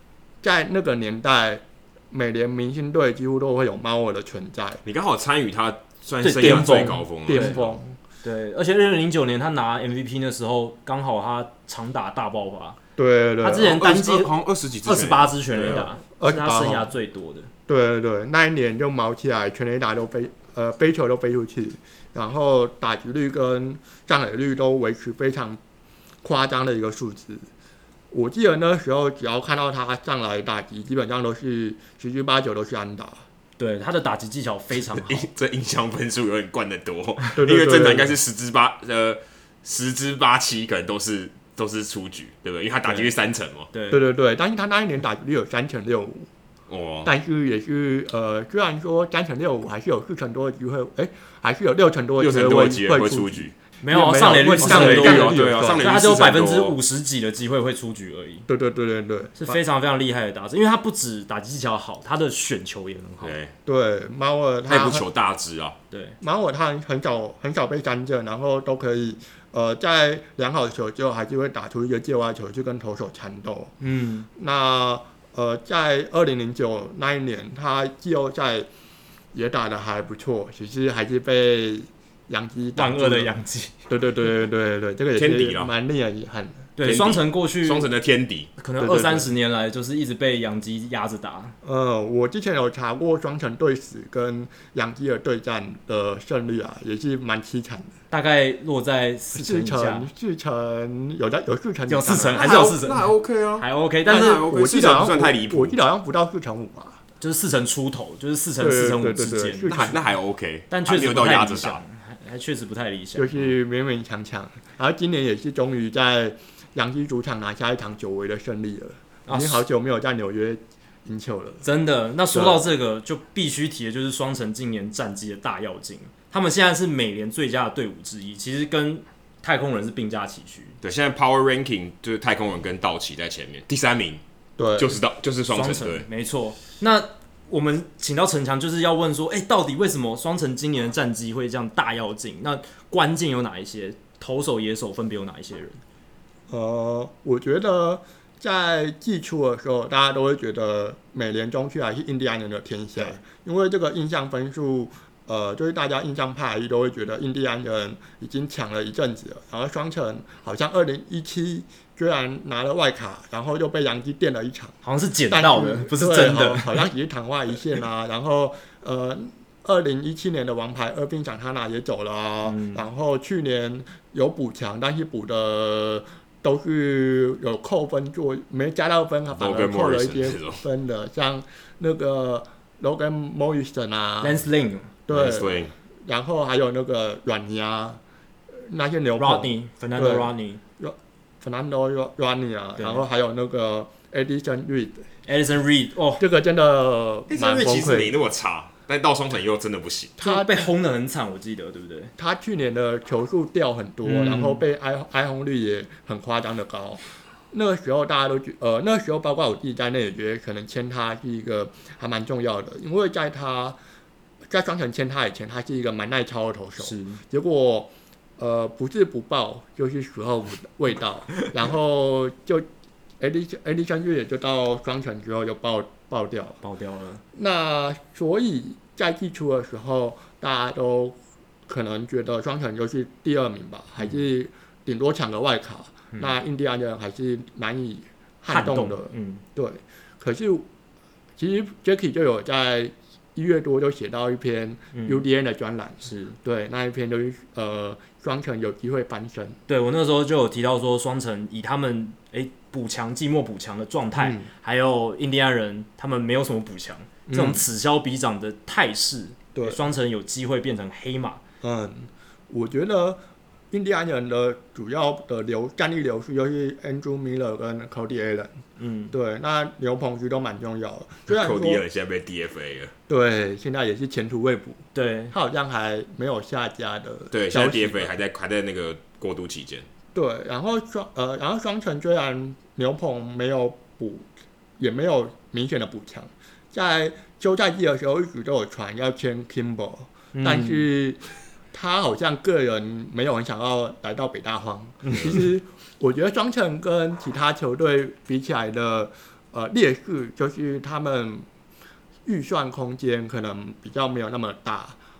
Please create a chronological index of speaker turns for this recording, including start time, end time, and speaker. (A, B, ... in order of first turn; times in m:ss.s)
0:00.4-0:04.8 A
0:04.8-0:07.8 B
0:06.2-0:07.6 C
0:06.3-0:08.0 A
0:08.2-0:12.8 C
0:13.0-0:13.8 A
0:13.4-0:14.3 C
0:13.6-0:15.8 B
0:14.8-0:17.5 C
0:15.6-0:16.9 A
0:17.7-0:25.6 A
0:26.2-0:27.5 A
0:28.1-0:33.2 A
0:33.6-0:35.3 C
0:34.9-0:43.7 B
0:37.4-0:38.2 A
0:42.8-0:43.1 C
0:43.7-0:44.0 C
0:43.9-0:46.3 A
0:46.7-0:47.1 B
0:47.0-0:55.9 A
0:52.2-0:53.5 B
0:53.8-0:58.4 C
0:54.6-0:56.8 B
0:58.5-0:59.6 A
0:59.4-1:03.4 C
1:03.2-1:03.5 B
1:03.6-1:05.0 A
1:04.7-1:05.8 B
1:05.9-1:06.2 C
1:06.2-1:13.7 A
1:13.8-1:14.3 C
1:14.3-1:18.7 A
1:19.3-1:23.3 A
1:22.8-1:23.7 C
1:23.9-1:26.7 A
1:25.2-1:25.7 B
1:26.8-1:27.9 C
1:26.8-1:28.5 B
1:28.6-1:31.5 C
1:28.8-1:29.3 A
1:31.6-1:37.9 A
1:38.1-1:40.1 C
1:39.3-1:42.8 A
1:41.9-1:44.4 C
1:42.3-1:45.8 B
1:44.1-1:47.0 A
1:47.2-1:49.9 C
1:48.6-1:50.0 A
1:49.7-1:51.8 B
1:50.7-1:53.3 C
1:53.1-2:01.6 A
1:59.2-1:59.6 C
2:01.6-2:10.8 C
2:02.3-2:02.6 A
2:10.8-2:14.2 B
2:14.6-2:15.0 A
2:14.8-2:16.0 B
2:15.5-2:25.8 C
2:26.5-2:44.8 A
2:44.8-2:46.8 C
2:45.3-3:04.4 A
2:52.4-2:52.8 C
2:59.3-3:00.6 B
3:04.2-3:04.9 C
3:05.1-3:08.0 A
3:05.1-3:05.7 B
3:08.6-3:15.0 A
3:09.2-3:10.6 C
3:12.8-3:13.0 C
3:15.2-3:16.2 C
3:16.2-3:18.1 A
3:17.3-3:20.2 B
3:20.2-3:20.7 A
3:20.2-3:22.1 C
3:22.2-3:33.8 A
3:24.0-3:24.6 C
3:34.5-3:42.6 A
3:36.8-3:37.2 C
3:43.2-3:46.6 A
3:46.6-3:47.2 C
3:47.3-4:00.6 A
3:58.5-3:59.4 C
4:01.4-4:09.6 A
4:04.9-4:05.2 C
4:06.0-4:06.4 C
4:09.7-4:21.4 C
4:14.1-4:14.5 A
4:17.3-4:17.6 A
4:19.5-4:19.8 A
4:21.6-4:28.6 A
4:28.8-4:29.1 C
4:29.1-4:31.8 A
4:31.3-4:32.9 B
4:33.1-4:38.1 A
4:34.9-4:35.3 C
4:37.3-4:39.9 B
4:40.1-4:44.3 A
4:44.8-5:01.5 A
4:50.3-4:50.8 C
5:02.2-5:05.0 A